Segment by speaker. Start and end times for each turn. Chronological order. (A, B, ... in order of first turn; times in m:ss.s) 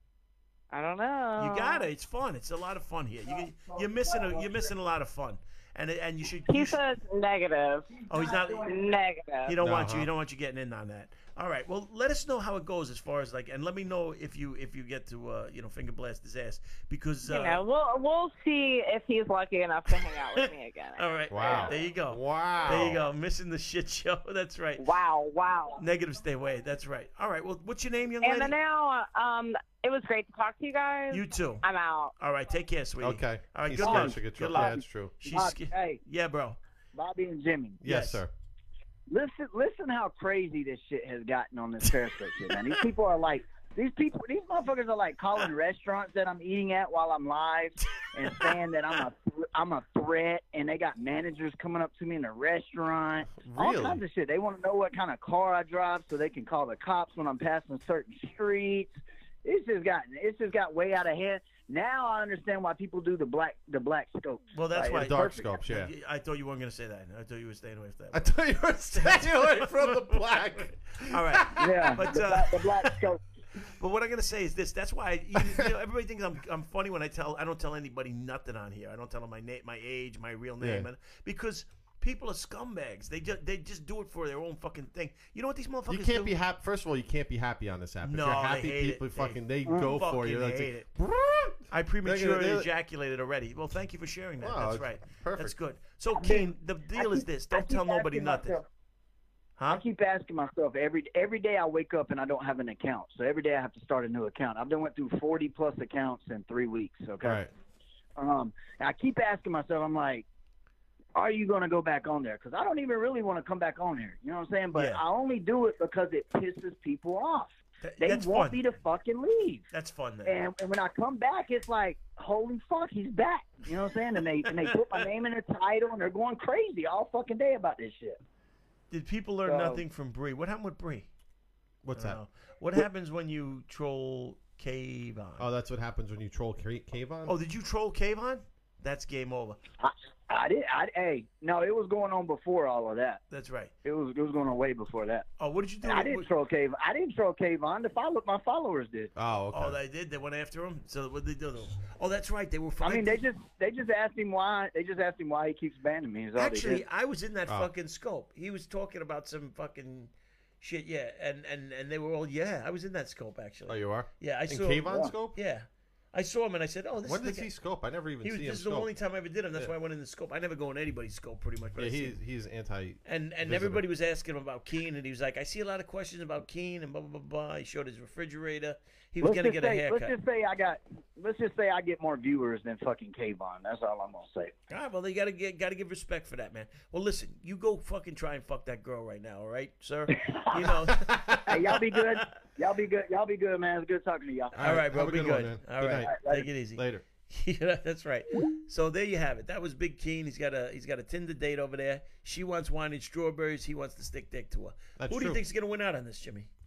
0:00.7-0:01.9 A
0:01.4-0:06.8 B
0:06.5-0:09.6 A
0:08.1-0:08.7 B
0:09.5-0:17.6 B
0:09.6-0:10.1 C
0:17.3-0:21.7 A
0:19.9-0:24.8 B
0:21.3-0:23.0 C
0:24.8-0:25.8 A
0:25.8-0:28.6 B
0:28.2-0:32.1 A
0:31.1-0:31.7 B
0:32.2-0:36.6 B
0:33.0-0:35.2 C
0:33.8-0:36.0 D
0:37.0-0:37.8 D
0:37.8-0:38.3 C
0:37.8-0:38.2 B
0:39.1-1:05.5 D
0:48.0-0:48.5 B
0:53.4-0:54.0 C
1:04.5-1:08.4 B
1:04.9-1:05.9 C
1:08.1-1:12.1 C
1:08.9-1:12.9 B
1:11.6-1:13.2 D
1:13.6-1:26.4 B
1:15.4-1:15.7 C
1:20.6-1:20.9 C
1:25.9-1:32.7 C
1:28.0-1:30.9 B
1:29.7-1:30.0 D
1:31.7-1:38.6 B
1:34.4-1:35.6 C
1:36.2-1:38.6 D
1:39.6-1:39.8 B
1:39.7-1:47.4 D
1:47.2-1:47.5 C
1:48.2-1:50.3 D
1:51.2-1:59.7 D
1:54.7-1:55.0 B
1:57.8-1:58.6 B
1:59.7-2:00.4 B
2:00.2-2:08.2 D
2:04.5-2:04.8 B
2:08.9-2:11.1 B
2:09.5-2:09.8 D
2:11.8-2:12.2 C
2:12.0-2:15.5 B
2:15.4-2:17.3 C
2:17.3-2:19.6 B
2:19.8-2:23.2 D
2:23.3-2:23.7 B
2:23.8-2:25.3 D
2:25.4-2:26.3 B
2:25.8-2:29.1 D
2:29.2-2:29.8 C
2:29.5-2:33.2 B
2:32.8-2:36.8 D
2:36.4-2:47.5 B
2:43.7-2:45.4 C
2:47.0-2:48.9 C
2:48.2-2:52.2 B
2:51.8-2:53.8 C
2:53.0-3:00.1 B
2:59.2-3:04.5 D
3:04.7-3:12.3 B
3:10.2-3:10.6 D
3:10.9-3:11.4 C
3:11.5-3:14.6 D
3:14.5-3:26.5 B
3:14.6-3:16.2 C
3:16.0-3:16.4 D
3:16.7-3:17.1 C
3:25.0-3:25.4 C